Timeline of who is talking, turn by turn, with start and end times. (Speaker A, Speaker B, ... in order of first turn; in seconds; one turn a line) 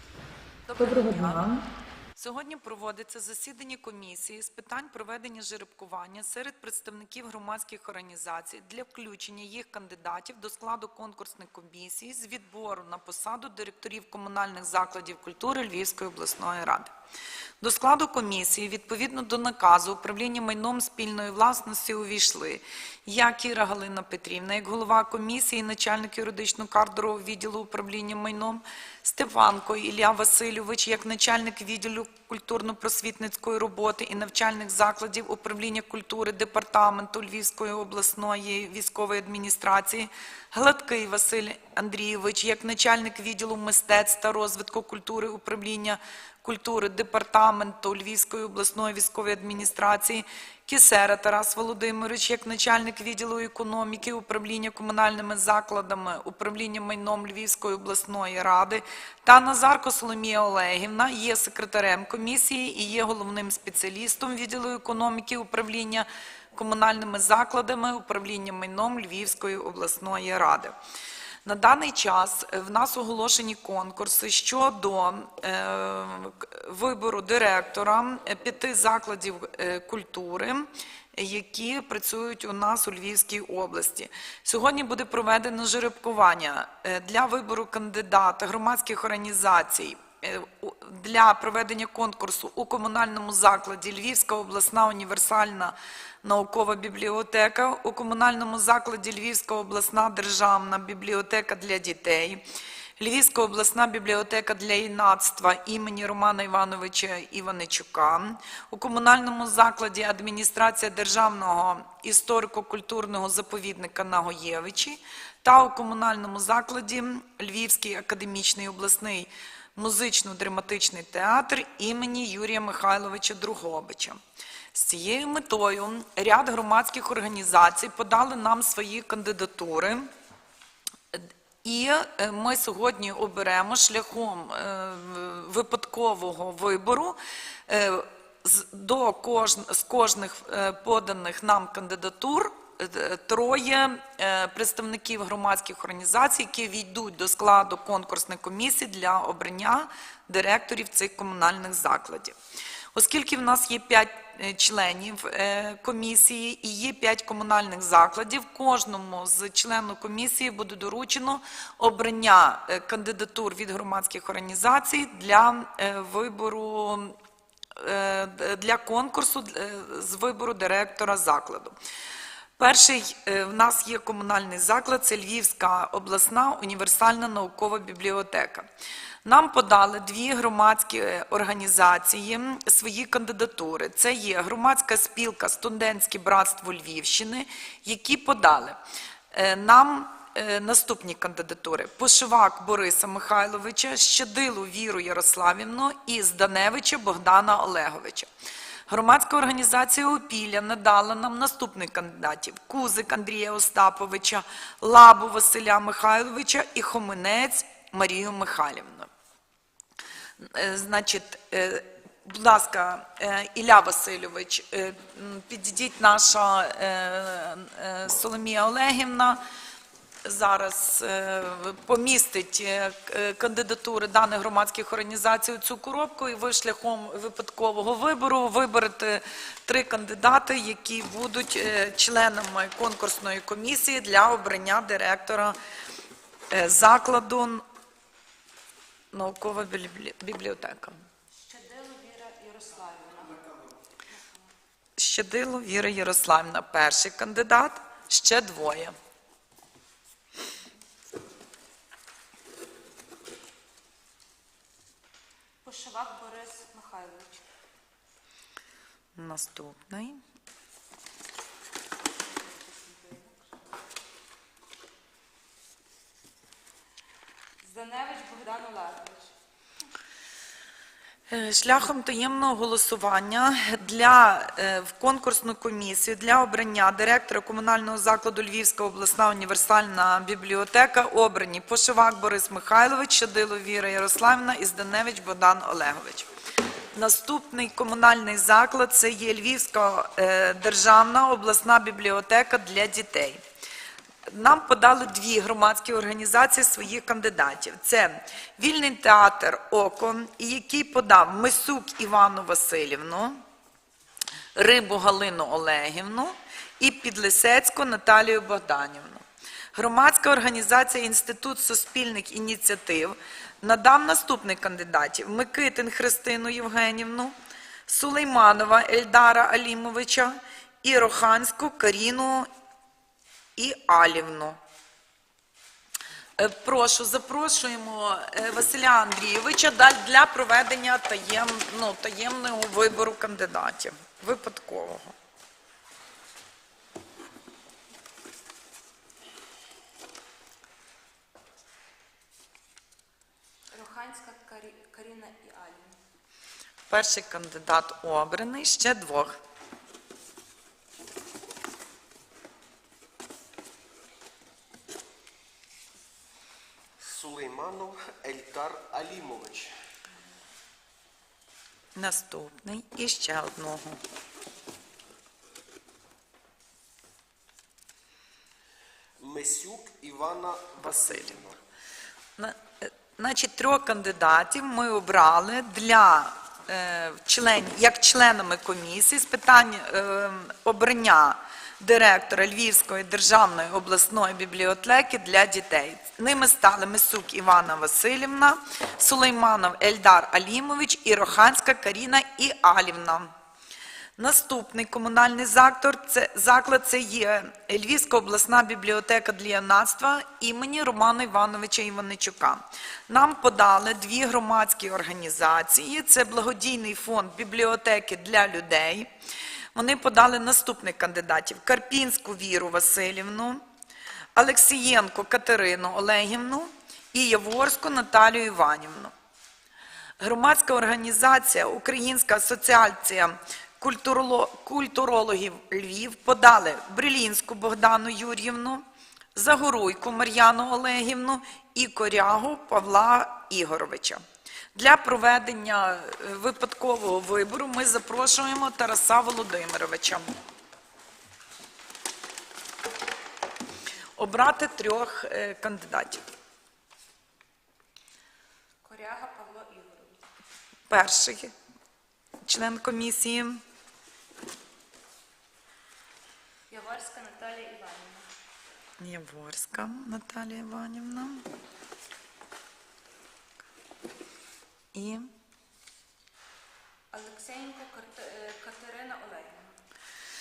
Speaker A: 0.7-1.6
Speaker A: 2.1-16.9
Speaker A: 17.6-70.7
Speaker A: 71.4-102.4
Speaker A: 103.0-124.2
Speaker A: 124.7-130.1
Speaker A: 131.1-152.3
Speaker A: 152.9-167.2
Speaker A: 167.8-171.7
Speaker A: 172.6-178.7
Speaker A: 179.2-188.8
Speaker A: 189.3-198.3
Speaker A: 198.9-209.1
Speaker A: 210.4-219.4
Speaker A: 220.2-235.6
Speaker A: 236.5-237.6
Speaker A: 239.1-240.9
Speaker B: 241.4-243.6
Speaker B: 244.1-244.4
Speaker A: 245.0-248.9
Speaker B: 255.6-257.4
Speaker A: 259.1-260.2
Speaker B: 262.2-263.4
Speaker B: 267.6-269.3
Speaker A: 271.3-286.3
Speaker A: 286.9-293.4
Speaker A: 294.3-303.4
Speaker A: 304.6-317.3
Speaker A: 317.9-322.5
Speaker A: 323.6-324.6
Speaker A: 326.4-335.1
Speaker B: 343.7-346.0
Speaker A: 346.9-349.4
Speaker C: 357.0-359.7
Speaker A: 361.9-364.0
Speaker C: 369.2-371.6
Speaker A: 372.4-393.3
Speaker A: 394.2-409.1
Speaker A: 409.7-413.6
Speaker A: 414.4-419.1
Speaker A: 420.2-428.8
Speaker A: 429.3-434.2
Speaker A: 434.7-440.2
Speaker A: 444.2-446.2
Speaker B: 448.8-450.2
Speaker A: 450.9-451.5
Speaker A: 452.4-453.6
Speaker B: 456.7-458.3
Speaker A: 459.0-461.5
Speaker A: 464.9-465.3
Speaker B: 467.1-469.8